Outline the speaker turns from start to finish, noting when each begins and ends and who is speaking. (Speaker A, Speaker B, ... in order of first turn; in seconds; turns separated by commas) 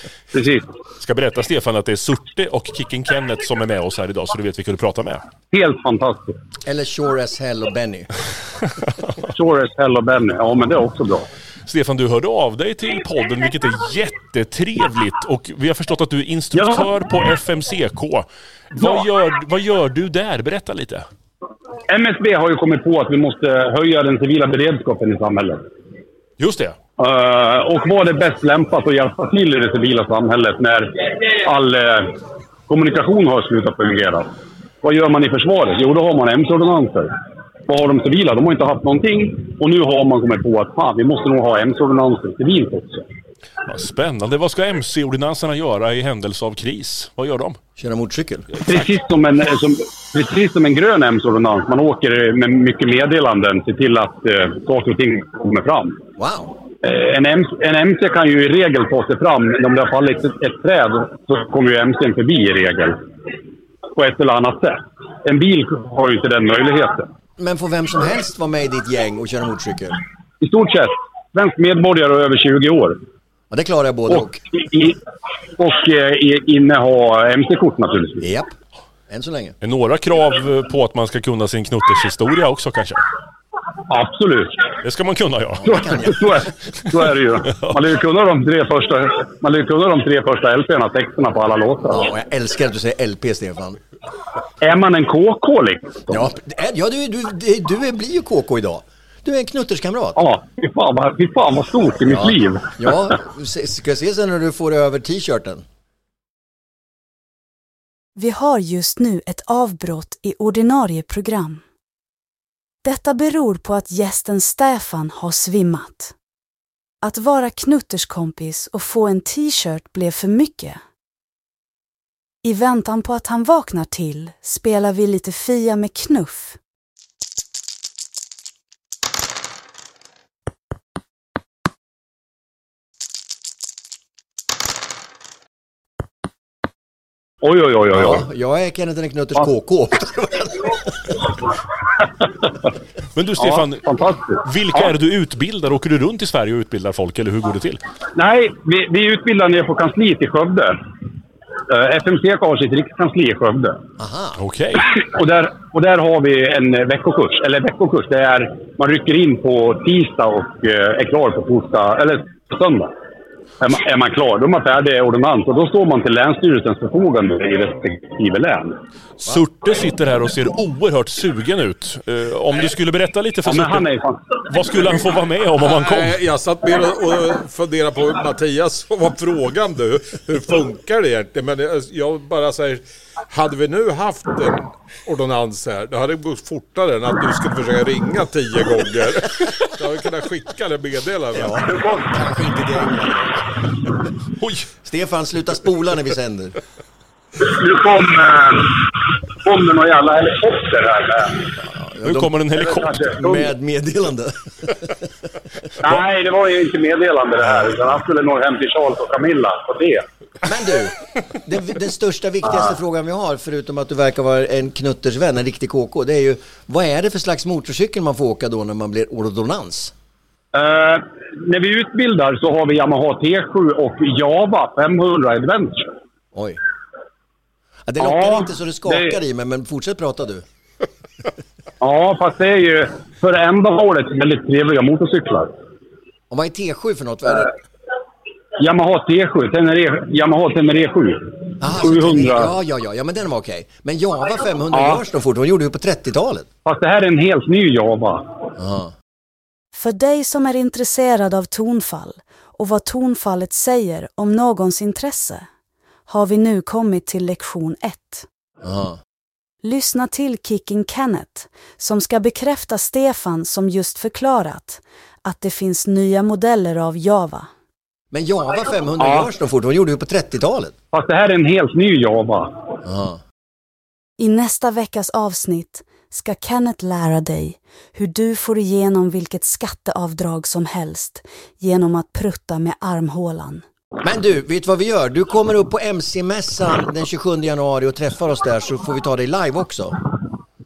Speaker A: 0.3-0.7, Speaker B: 1.0-5.2, Speaker A: 5.5-6.4, Speaker C: 6.7-8.1, Speaker A: 9.3-11.3, Speaker B: 11.7-21.1, Speaker A: 16.6-16.9, Speaker A: 21.9-25.6, Speaker B: 26.4-26.8, Speaker A: 27.0-32.1, Speaker A: 32.7-34.3, Speaker A: 34.8-37.1, Speaker A: 37.7-43.1, Speaker B: 43.7-47.6, Speaker C: 47.8-48.5, Speaker A: 48.7-56.0, Speaker C: 56.2-56.5, Speaker A: 56.8-63.0, Speaker A: 64.0-67.1, Speaker C: 67.4-70.0, Speaker A: 70.4-73.0, Speaker C: 73.5-74.4, Speaker A: 74.2-75.0, Speaker A: 75.6-78.3, Speaker C: 78.2-78.5, Speaker C: 79.1-79.6, Speaker B: 79.6-83.0, Speaker A: 83.9-84.6, Speaker B: 84.8-86.0, Speaker C: 85.6-86.5, Speaker A: 85.8-92.0, Speaker C: 91.9-93.8, Speaker A: 94.6-96.3, Speaker C: 96.1-100.2, Speaker A: 100.2-102.9, Speaker C: 102.1-105.7, Speaker D: 108.2-111.6, Speaker D: 112.8-116.1, Speaker D: 117.0-120.8, Speaker D: 122.4-126.6, Speaker A: 137.4-138.2, Speaker C: 137.9-141.1, Speaker B: 143.2-143.8, Speaker A: 143.4-144.9, Speaker B: 144.4-147.8, Speaker A: 148.2-150.8, Speaker A: 151.7-153.8, Speaker C: 154.0-154.4, Speaker B: 154.4-154.9, Speaker A: 154.9-162.9, Speaker A: 163.6-168.8, Speaker B: 169.2-173.9, Speaker A: 173.5-174.2, Speaker B: 174.4-176.2, Speaker E: 175.6-191.6, Speaker C: 191.3-193.5, Speaker B: 194.4-194.7, Speaker C: 194.8-196.6, Speaker A: 197.4-201.5, Speaker C: 201.7-202.3, Speaker B: 202.0-203.2, Speaker A: 202.6-203.5, Speaker C: 203.0-205.1, Speaker A: 205.8-210.1, Speaker C: 210.4-219.9, Speaker A: 220.5-225.9, Speaker C: 226.3-226.6, Speaker C: 227.9-230.4, Speaker A: 228.0-229.2, Speaker A: 231.8-235.5, Speaker C: 236.3-237.5, Speaker A: 238.6-242.5, Speaker C: 241.6-246.5, Speaker A: 244.7-245.0, Speaker A: 246.7-248.3, Speaker C: 248.6-248.9, Speaker D: 249.7-255.5, Speaker D: 256.1-258.3, Speaker C: 258.6-259.0, Speaker D: 259.6-267.5, Speaker C: 268.1-270.8, Speaker A: 270.9-272.6, Speaker C: 272.8-273.2, Speaker D: 274.2-283.6, Speaker C: 284.0-290.0